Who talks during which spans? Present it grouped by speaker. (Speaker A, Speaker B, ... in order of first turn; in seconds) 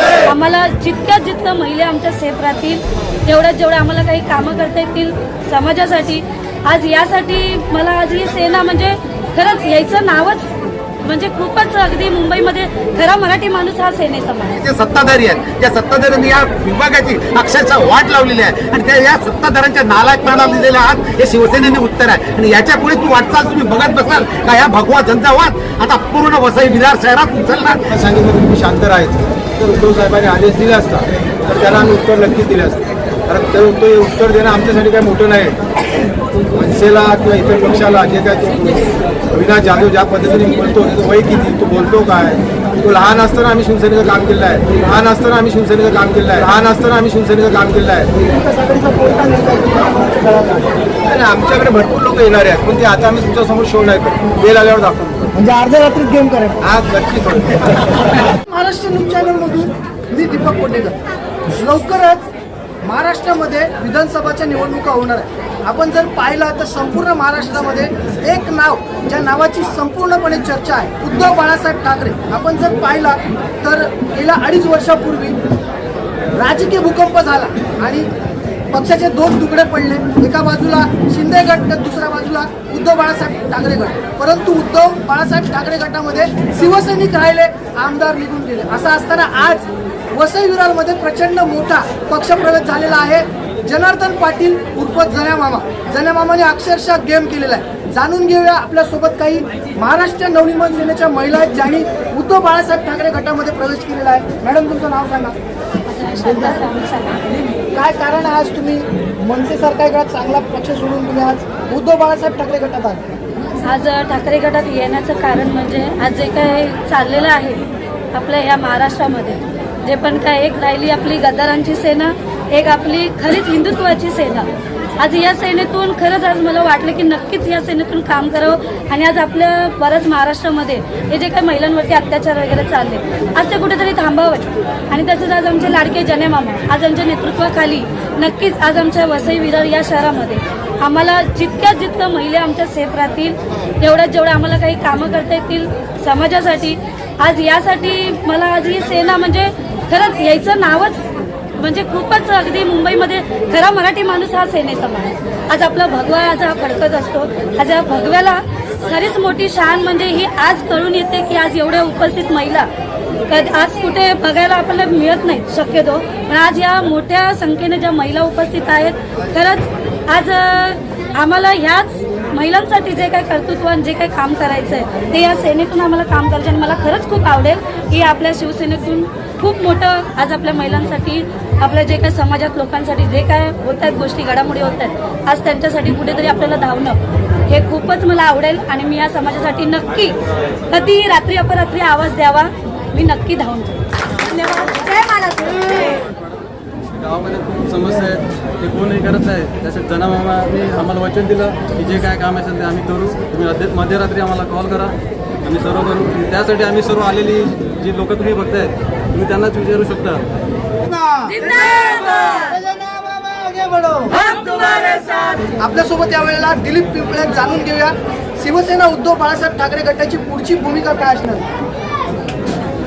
Speaker A: 0.2-10.5, 11.0-14.6, 105.8-107.2, 113.6-162.7, 163.3-190.2, 190.7-196.0, 211.5-212.3
Speaker B: 14.6-27.9
Speaker C: 27.9-35.6, 36.5-48.1, 51.0-55.3, 56.6-57.8
Speaker D: 48.2-50.8, 55.3-56.6, 58.5-61.0, 61.5-62.3, 62.8-75.4, 76.3-78.1, 78.7-105.3, 106.2-106.6, 107.3-113.1, 212.3-214.1, 215.4-221.4
Speaker E: 196.9-210.3